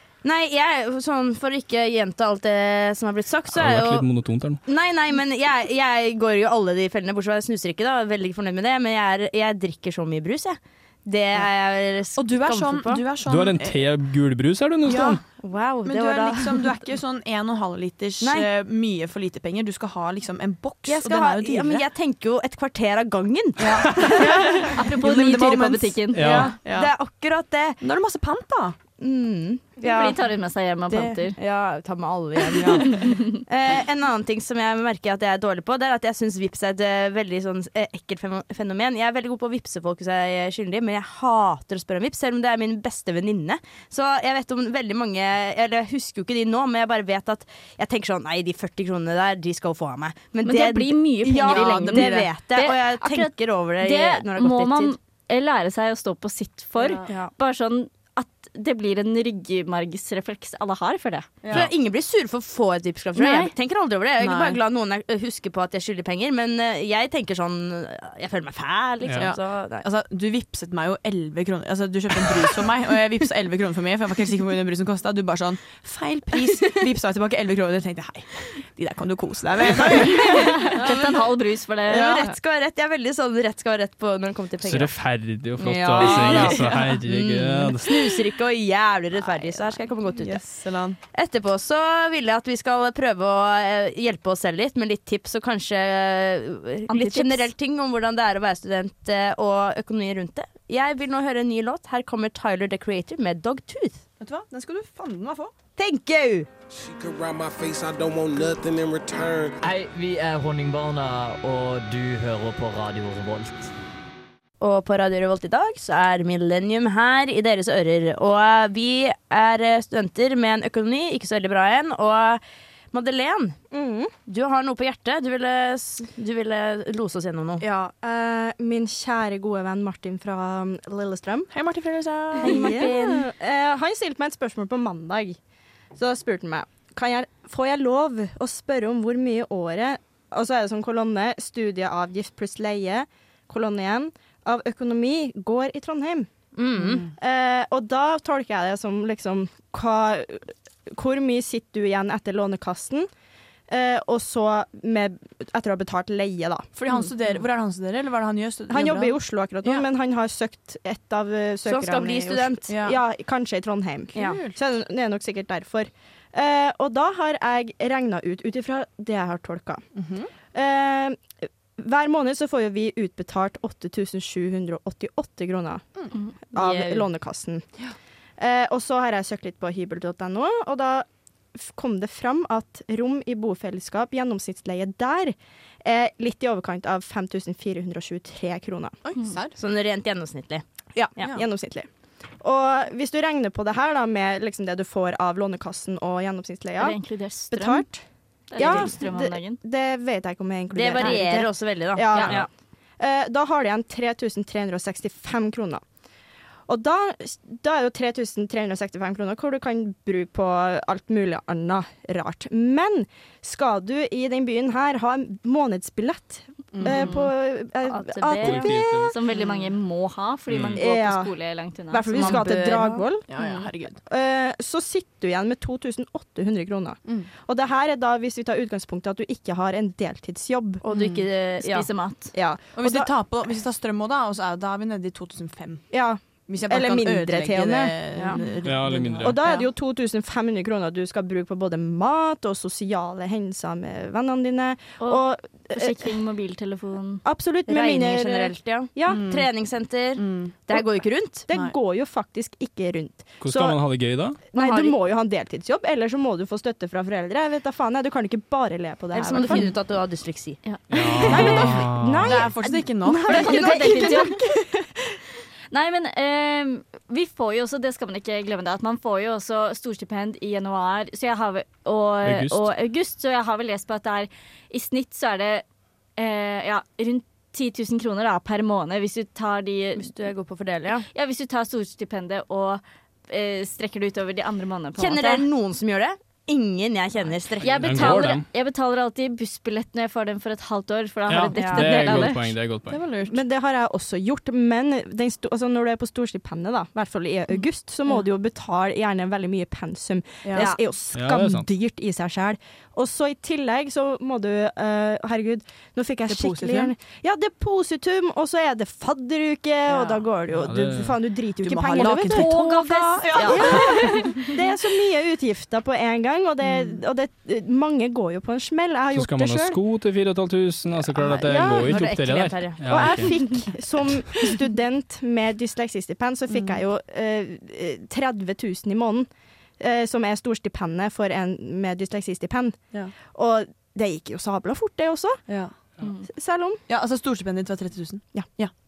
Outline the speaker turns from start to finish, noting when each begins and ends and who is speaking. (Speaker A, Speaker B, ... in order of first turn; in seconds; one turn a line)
Speaker A: 0.2-13.0
Speaker B: 3.5-4.6
Speaker C: 12.1-13.9
Speaker B: 13.2-15.2
Speaker C: 14.9-15.2
Speaker A: 14.9-16.6
Speaker C: 15.8-21.9
Speaker A: 18.2-18.5
Speaker A: 20.9-24.8
Speaker C: 23.6-27.0
Speaker D: 24.7-26.2
Speaker B: 26.1-26.6
Speaker A: 26.2-27.8
Speaker C: 27.8-28.8
Speaker A: 29.0-30.3
Speaker D: 29.8-31.4
Speaker A: 30.9-55.0
Speaker D: 50.4-61.3
Speaker C: 51.3-52.4
Speaker C: 56.8-57.1
Speaker A: 57.1-57.3
Speaker C: 61.4-61.7
Speaker A: 61.5-69.8
Speaker D: 63.1-63.5
Speaker C: 64.2-64.6
Speaker C: 69.2-81.1
Speaker D: 80.7-82.2
Speaker A: 81.9-85.0
Speaker C: 81.9-82.4
Speaker B: 84.6-88.2
Speaker A: 85.6-90.4
Speaker C: 90.1-91.0
Speaker A: 91.1-104.0
Speaker D: 96.9-97.5
Speaker C: 104.2-105.5
Speaker A: 105.8-106.5
Speaker E: 106.7-109.6
Speaker F: 109.6-113.7
Speaker A: 114.6-123.6
Speaker G: 123.7-124.1
Speaker A: 124.3-127.6
Speaker G: 127.6-131.5
Speaker C: 131.5-132.9
Speaker A: 132.4-133.2
Speaker G: 132.5-135.4
Speaker G: 135.9-146.3
Speaker A: 146.5-147.1
Speaker C: 146.8-147.1
Speaker G: 147.2-153.1
Speaker G: 153.7-156.7
Speaker C: 156.8-159.9
Speaker G: 158.7-169.9
Speaker A: 161.7-162.8
Speaker C: 162.7-163.0
Speaker A: 164.1-164.5
Speaker C: 164.1-164.6
Speaker C: 169.9-170.3
Speaker G: 170.5-176.0
Speaker G: 176.5-177.7
Speaker A: 176.6-177.1
Speaker G: 178.4-189.0
Speaker C: 189.0-189.6
Speaker A: 189.5-190.6
Speaker C: 191.0-191.4
Speaker G: 191.2-191.9
Speaker G: 192.4-202.5
Speaker D: 196.8-198.0
Speaker D: 198.5-199.6
Speaker A: 198.6-199.0
Speaker A: 200.7-202.5
Speaker D: 201.0-201.2
Speaker D: 202.1-202.4
Speaker G: 203.0-205.8
Speaker G: 206.7-218.7
Speaker C: 216.7-217.1
Speaker D: 216.8-222.4
Speaker B: 218.4-219.1
Speaker B: 220.5-220.8
Speaker G: 220.7-221.3
Speaker G: 221.9-230.8
Speaker A: 222.1-223.1
Speaker C: 223.3-224.0
Speaker A: 230.8-231.9
Speaker C: 230.9-231.3
Speaker D: 231.6-232.3
Speaker G: 232.3-233.1
Speaker C: 232.7-239.4
Speaker G: 235.9-238.1
Speaker A: 238.1-238.4
Speaker B: 238.6-239.4
Speaker G: 239.2-246.1
Speaker D: 245.0-247.2
Speaker G: 247.2-249.3
Speaker A: 247.7-251.5
Speaker C: 249.1-249.5
Speaker C: 250.2-250.6
Speaker G: 251.3-259.7
Speaker C: 251.5-251.7
Speaker B: 253.4-254.4
Speaker A: 254.6-254.9
Speaker A: 259.1-260.6
Speaker D: 260.6-261.7
Speaker B: 260.9-262.3
Speaker A: 261.2-261.7
Speaker C: 261.3-264.0
Speaker G: 261.9-265.0
Speaker D: 263.3-264.3
Speaker A: 263.3-264.2
Speaker D: 265.7-275.6
Speaker B: 272.2-272.7
Speaker D: 276.2-280.1
Speaker A: 279.9-281.1
Speaker D: 281.1-285.4
Speaker A: 285.0-288.2
Speaker D: 287.6-292.5
Speaker B: 287.6-288.4
Speaker B: 291.3-293.0
Speaker A: 291.6-292.3
Speaker C: 292.9-293.4
Speaker G: 293.3-312.4
Speaker C: 300.4-300.8
Speaker B: 301.1-301.7
Speaker C: 306.3-306.9
Speaker C: 309.9-310.2
Speaker B: 310.5-311.1
Speaker C: 311.6-314.4
Speaker D: 312.0-314.4
Speaker G: 313.5-319.8
Speaker C: 316.6-317.0
Speaker B: 319.1-323.4
Speaker A: 321.1-323.3
Speaker G: 321.5-321.9
Speaker G: 322.8-335.4
Speaker C: 326.5-326.8
Speaker C: 335.4-335.7
Speaker D: 336.0-336.3
Speaker G: 336.3-336.8
Speaker C: 336.9-338.7